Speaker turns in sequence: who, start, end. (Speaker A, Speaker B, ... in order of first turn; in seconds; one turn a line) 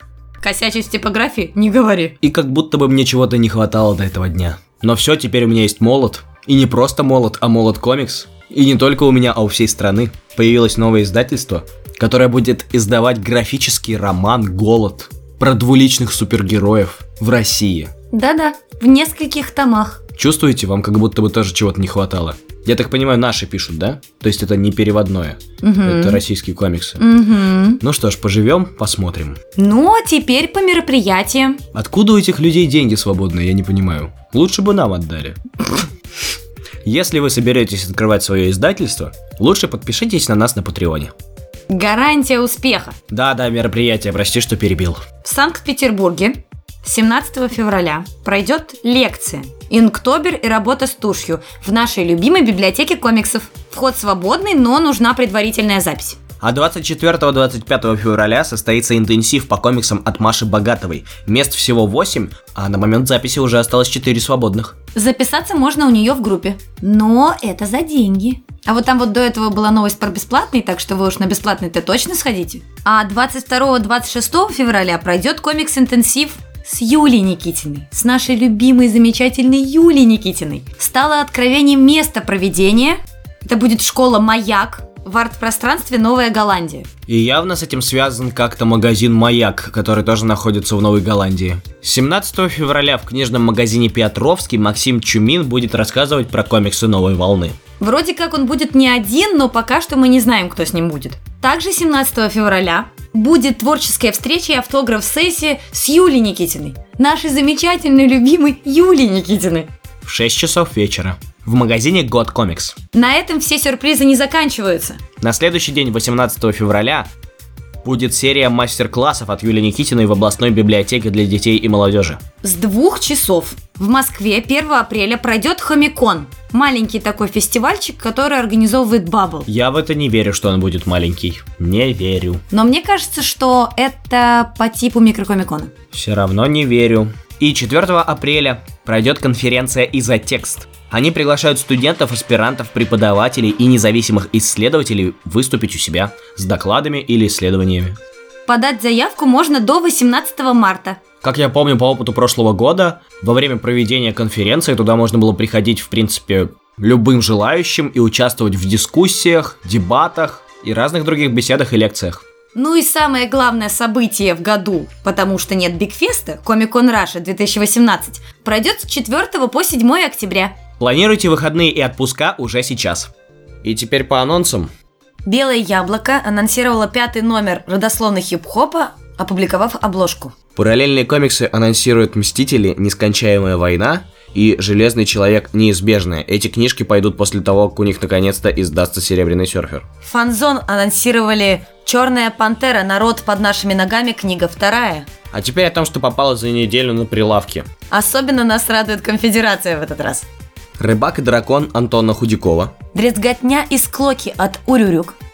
Speaker A: 0.4-2.1
Speaker B: 2.2-17.9
Speaker A: 18.1-20.0
Speaker B: 20.2-27.0
Speaker A: 25.6-26.2
Speaker A: 27.0-27.8
Speaker B: 27.8-29.4
Speaker A: 29.6-31.6
Speaker B: 31.7-35.8
Speaker B: 36.8-41.1
Speaker A: 41.7-43.0
Speaker B: 43.1-45.0
Speaker A: 45.2-56.2
Speaker B: 56.4-64.7
Speaker A: 64.9-86.9
Speaker B: 87.1-97.6
Speaker A: 97.8-109.7
Speaker B: 110.0-112.8
Speaker A: 112.9-115.0
Speaker B: 115.2-117.1
Speaker B: 117.8-122.2
Speaker A: 122.4-129.5
Speaker B: 129.5-132.4
Speaker A: 132.5-135.7
Speaker B: 135.9-148.0
Speaker A: 148.5-151.0
Speaker B: 151.2-162.2
Speaker A: 162.6-170.6
Speaker B: 170.8-173.1
Speaker B: 173.6-174.7
Speaker A: 175.2-180.3
Speaker B: 180.6-189.9
Speaker A: 190.0-195.1
Speaker B: 195.3-197.7
Speaker A: 197.9-200.3
Speaker B: 200.8-202.7
Speaker A: 202.9-205.2